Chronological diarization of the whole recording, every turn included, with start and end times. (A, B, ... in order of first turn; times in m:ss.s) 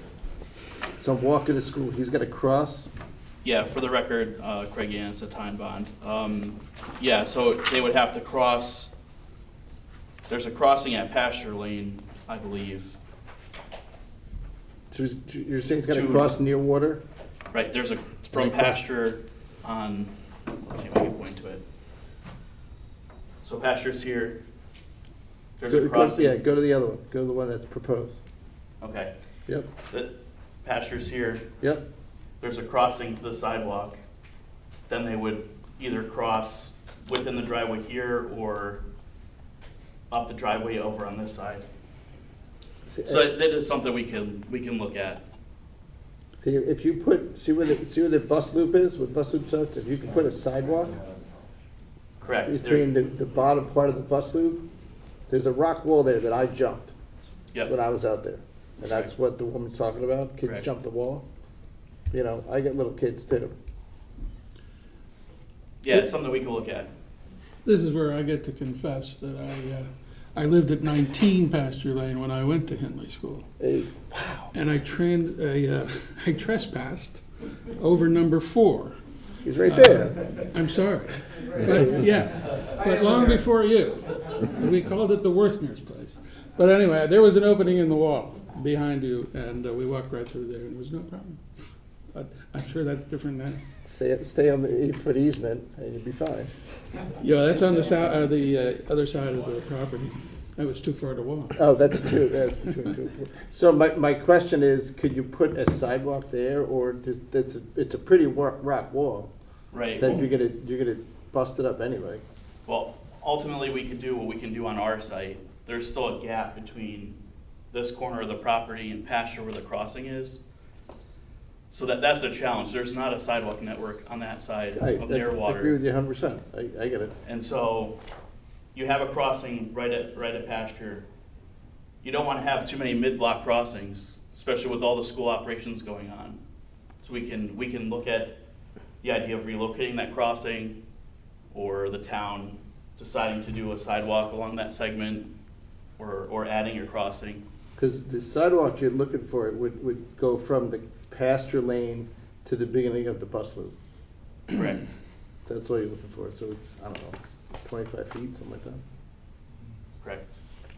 0:01.0-0:02.9 A
0:03.4-0:08.9 B
0:10.3-0:12.9 B
0:14.9-0:17.0 A
0:15.9-0:16.4 B
0:17.5-0:20.1 B
0:18.3-0:18.8 A
0:20.6-0:21.6 B
0:23.4-0:24.4 B
0:25.6-0:26.4 B
0:25.7-0:28.2 A
0:28.8-0:29.1 B
0:29.9-0:31.4 B
0:32.4-0:34.0 B
0:34.9-0:38.8 B
0:40.1-0:41.6 B
0:42.9-0:43.3 A
0:43.0-0:45.2 B
0:46.4-0:51.0 A
0:52.2-0:52.9 B
0:52.4-0:54.6 A
0:55.3-0:56.9 A
0:57.6-1:01.2 A
1:02.1-1:03.5 A
1:05.8-1:06.9 B
1:07.6-1:13.4 C
1:13.6-1:14.5 A
1:14.5-1:19.0 C
1:19.4-1:20.2 A
1:19.6-1:31.4 C
1:32.1-1:33.6 C
1:33.8-1:36.5 A
1:37.2-1:42.0 C
1:41.6-1:49.3 A
1:49.7-1:50.2 B
1:50.0-1:52.2 A
1:52.7-1:57.2 B
1:57.7-2:00.4 B
2:01.7-2:05.7 B
2:04.8-2:07.1 A
2:07.2-2:08.0 B
2:08.7-2:11.0 B
2:12.0-2:16.4 B
2:17.0-2:18.4 B
2:19.0-2:20.8 B
2:21.5-2:25.3 B
2:26.0-2:27.4 B
2:27.8-2:33.7 A
2:34.5-2:34.8 B
2:35.4-2:38.8 A